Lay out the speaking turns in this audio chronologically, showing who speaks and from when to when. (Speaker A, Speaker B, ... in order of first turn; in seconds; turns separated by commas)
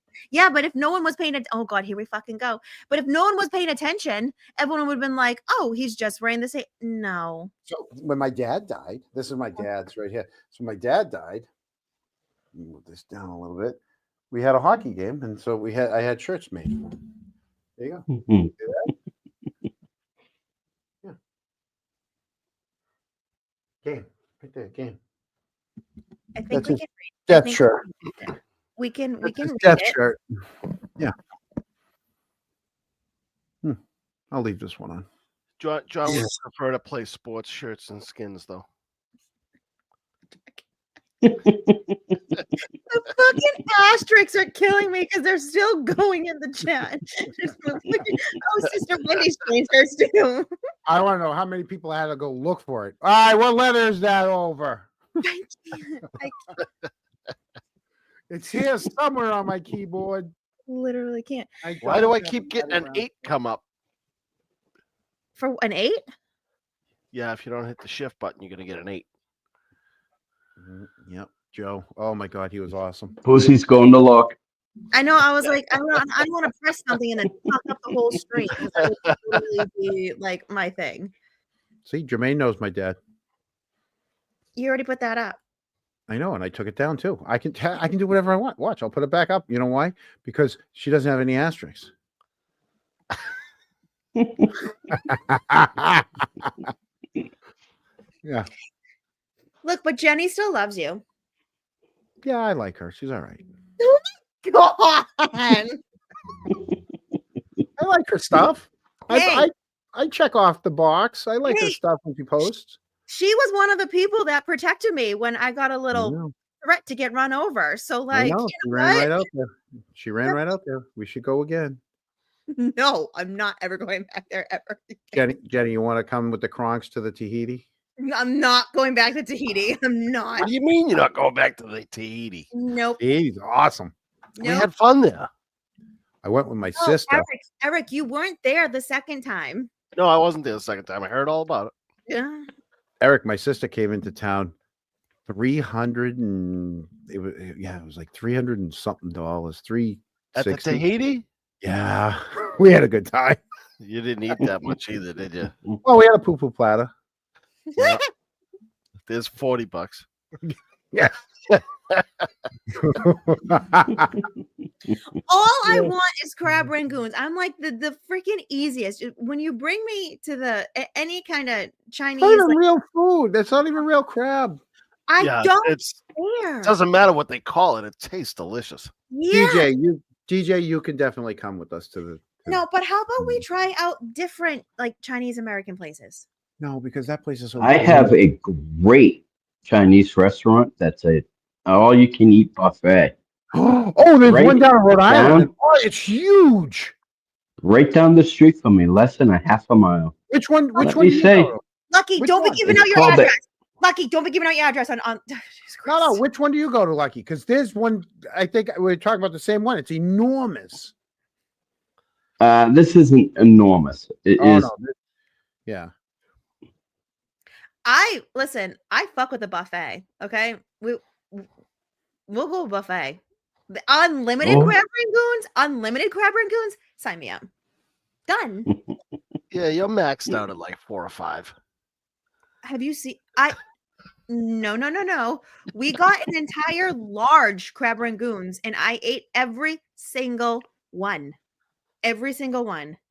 Speaker A: 0.3-7.5, Speaker B: 7.7-11.5, Speaker B: 12.5-13.8, Speaker B: 14.3-17.0, Speaker B: 17.8-18.9, Speaker C: 18.1-18.5, Speaker B: 23.8-25.0, Speaker A: 26.4-27.7, Speaker B: 26.5-27.8, Speaker A: 28.2-30.0, Speaker B: 29.2-30.2, Speaker B: 34.3-35.1, Speaker D: 35.6-38.7, Speaker C: 41.2-42.0, Speaker A: 42.9-50.5, Speaker B: 50.9-54.9, Speaker A: 55.2-56.4, Speaker B: 58.3-60.3, Speaker A: 60.7-61.5, Speaker B: 61.6-63.1, Speaker D: 61.8-63.6, Speaker A: 65.4-66.0, Speaker D: 67.1-69.1, Speaker B: 70.6-73.2, Speaker C: 73.2-74.4, Speaker A: 74.9-81.1, Speaker B: 81.8-83.0, Speaker A: 84.6-85.4, Speaker B: 86.1-91.9, Speaker C: 94.2-94.5, Speaker B: 94.9-96.5, Speaker A: 99.6-101.0, Speaker B: 102.2-103.4, Speaker A: 103.8-105.8, Speaker B: 107.8-112.8, Speaker A: 109.1-109.5, Speaker A: 111.5-111.8, Speaker A: 113.1-119.2, Speaker B: 115.9-116.3, Speaker B: 118.1-121.8, Speaker A: 122.5-125.2, Speaker B: 125.1-127.7, Speaker A: 128.0-130.5, Speaker D: 130.4-132.5, Speaker A: 132.5-133.0, Speaker B: 133.0-133.9, Speaker A: 134.4-134.7, Speaker D: 134.4-135.3, Speaker B: 136.2-137.3, Speaker A: 136.8-139.7, Speaker D: 139.9-141.7, Speaker A: 142.1-142.5, Speaker B: 143.0-144.5, Speaker B: 145.3-150.8, Speaker D: 150.3-151.3, Speaker B: 151.6-153.4, Speaker D: 153.8-155.6, Speaker B: 155.8-156.9, Speaker D: 157.8-158.0, Speaker D: 159.1-160.1, Speaker D: 161.5-162.3, Speaker B: 162.8-164.2, Speaker A: 165.3-172.6, Speaker B: 172.2-174.6, Speaker A: 175.1-176.7, Speaker D: 175.2-176.0, Speaker D: 176.6-178.9, Speaker A: 179.1-179.7, Speaker B: 179.3-182.6, Speaker A: 182.5-186.2, Speaker B: 186.6-188.2, Speaker C: 187.6-193.1, Speaker B: 193.5-197.0, Speaker C: 194.3-195.5, Speaker C: 197.6-200.1, Speaker B: 200.3-201.6, Speaker C: 200.8-201.5, Speaker A: 201.9-206.2, Speaker B: 202.2-202.8, Speaker C: 202.7-203.3, Speaker B: 205.9-210.9, Speaker C: 212.4-214.7, Speaker B: 214.4-214.9, Speaker B: 215.7-215.9, Speaker A: 217.9-221.5, Speaker A: 222.3-223.2, Speaker A: 223.7-227.4, Speaker C: 224.4-224.8, Speaker A: 228.3-228.7, Speaker D: 229.5-231.5, Speaker A: 232.6-233.6, Speaker A: 234.3-241.3, Speaker A: 242.0-243.0